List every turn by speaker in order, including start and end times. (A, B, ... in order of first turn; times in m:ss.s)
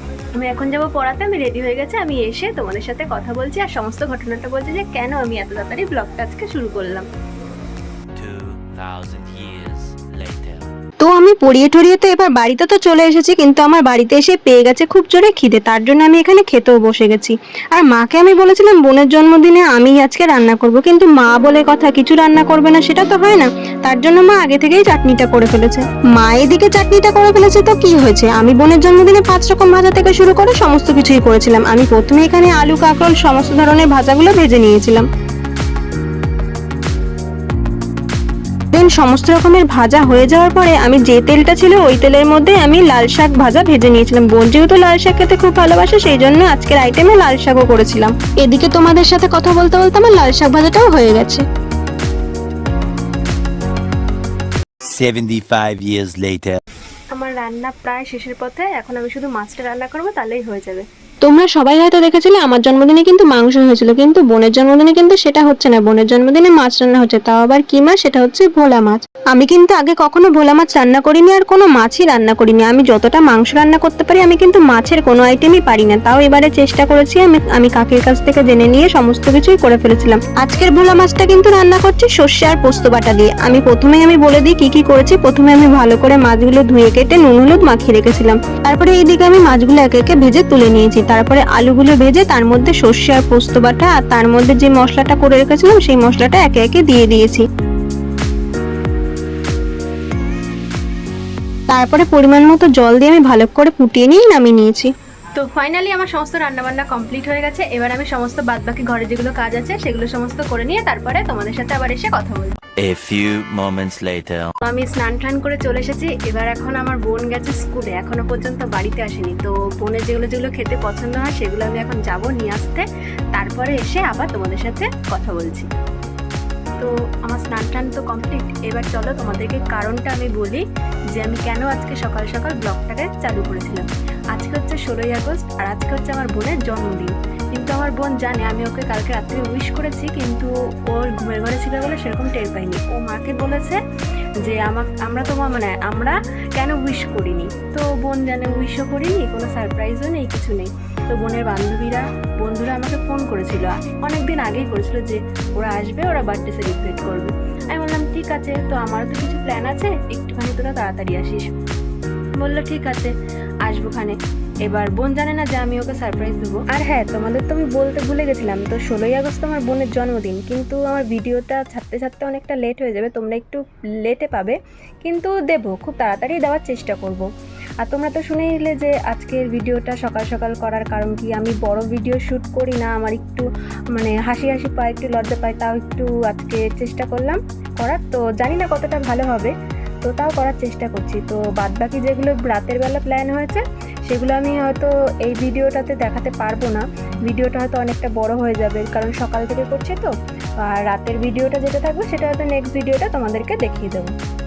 0:00.4-0:07.1 A
0:08.2-0:10.7 B
0:11.0-0:35.1 C
0:38.7-0:51.4 C
0:54.9-0:56.6 B
0:57.1-1:00.9 A
1:01.2-1:37.4 C
1:41.7-1:44.9 C
1:45.4-1:52.5 A
1:52.8-1:54.5 B
1:54.6-2:05.7 A
2:06.8-2:10.6 A
2:11.2-2:23.8 A
2:24.4-2:41.5 A
2:42.4-2:43.1 A
2:43.6-2:57.3 A
2:57.8-3:24.1 A